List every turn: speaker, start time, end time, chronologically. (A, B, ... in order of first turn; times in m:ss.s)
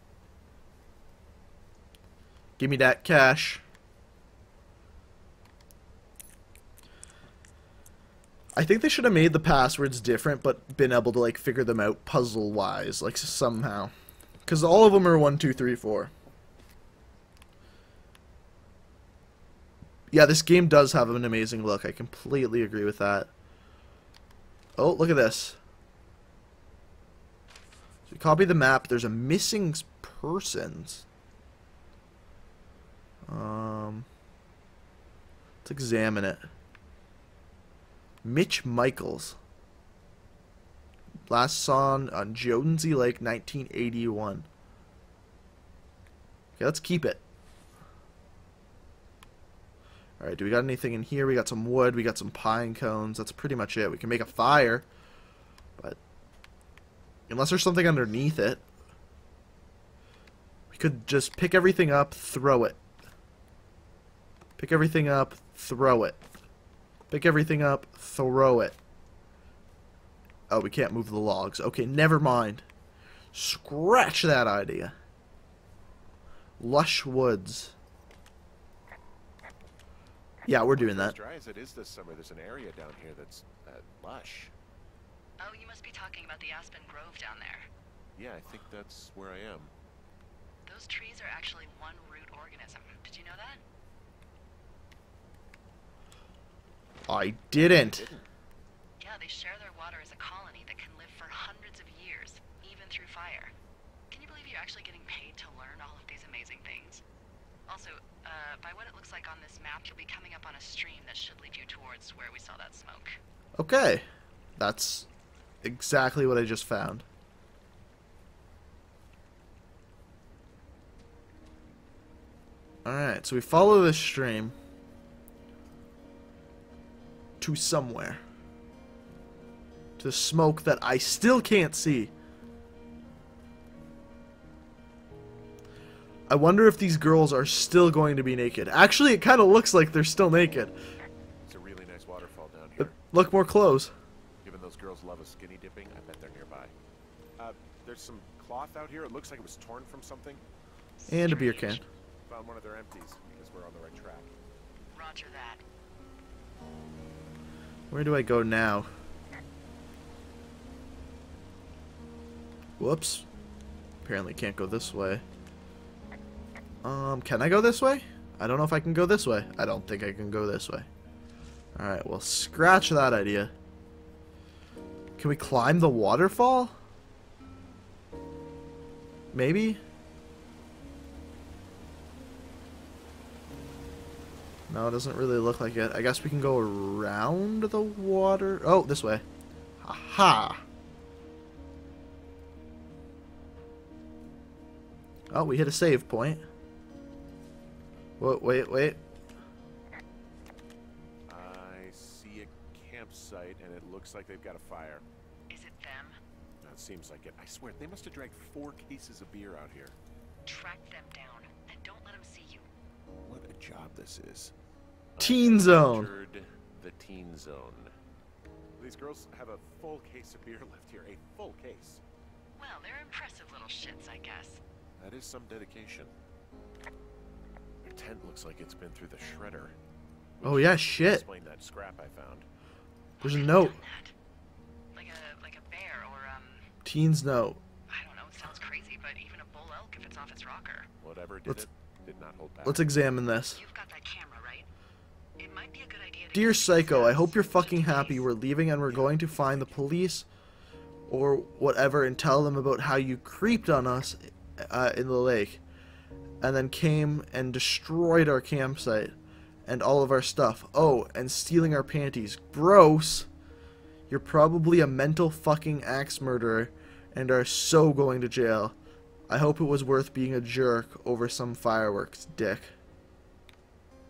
0:02.6-0:03.6 A
0:08.6-0:13.9 A
0:14.4-0:16.1 A
0:20.1-0:23.3 A
0:24.8-0:25.6 A
0:28.1-0:31.0 A
0:33.2-0:34.1 A
0:35.6-0:36.5 A
0:38.2-0:39.4 A
0:41.3-0:44.5 A
0:46.6-0:47.2 A
0:50.2-0:54.8 A
0:57.3-0:58.6 A
1:00.7-1:02.8 A
1:04.6-1:06.2 A
1:07.1-1:08.8 A
1:10.5-1:12.6 A
1:13.3-1:14.9 A
1:16.6-1:17.7 A
1:20.4-1:21.1 A
1:20.7-1:24.5 B
1:25.4-1:27.7 C
1:28.2-1:29.7 B
1:30.6-1:33.6 C
1:37.1-1:38.1 A
1:37.5-1:38.3 B
1:39.0-1:43.5 C
1:44.1-1:47.0 C
1:47.7-1:53.2 C
1:53.6-1:54.0 A
1:54.6-1:55.1 A
1:55.6-1:57.0 A
2:02.8-2:04.5 A
2:07.4-2:08.2 A
2:10.0-2:12.1 A
2:16.3-2:20.7 A
2:21.4-2:23.0 B
2:22.8-2:23.9 A
2:24.4-2:26.7 B
2:27.4-2:30.4 B
2:31.0-2:31.8 C
2:31.1-2:31.8 A
2:32.2-2:34.3 B
2:34.9-2:35.6 C
2:37.9-2:38.9 A
2:42.8-2:43.2 A
2:44.0-2:45.2 A
2:46.8-2:50.9 A
2:51.7-2:53.5 A
2:55.2-2:56.8 A
2:59.3-2:59.8 A
3:04.7-3:09.2 A
3:09.8-3:10.6 A
3:15.3-3:16.4 A
3:18.2-3:19.0 A
3:21.3-3:25.0 B
3:25.5-3:26.2 C
3:26.6-3:29.9 B
3:30.4-3:32.7 C
3:33.2-3:34.5 B
3:35.2-3:37.9 B
3:35.2-3:36.1 A
3:38.8-3:42.0 B
3:42.6-3:44.6 C
3:45.0-3:46.1 B
3:47.8-3:49.8 B
3:50.4-3:52.4 B
3:50.4-3:51.2 A
3:53.2-3:54.1 C
3:53.2-3:53.8 A
3:54.9-3:56.7 C
3:56.8-3:57.6 A
3:57.9-4:00.9 C
4:01.0-4:02.9 B
4:02.6-4:03.6 A
4:03.5-4:04.7 C
4:05.4-4:08.3 C
4:06.3-4:10.2 A
4:08.8-4:09.8 B
4:11.1-4:15.6 A
4:16.4-4:19.1 A
4:19.6-4:23.3 A
4:24.1-4:28.8 A
4:29.3-4:32.7 A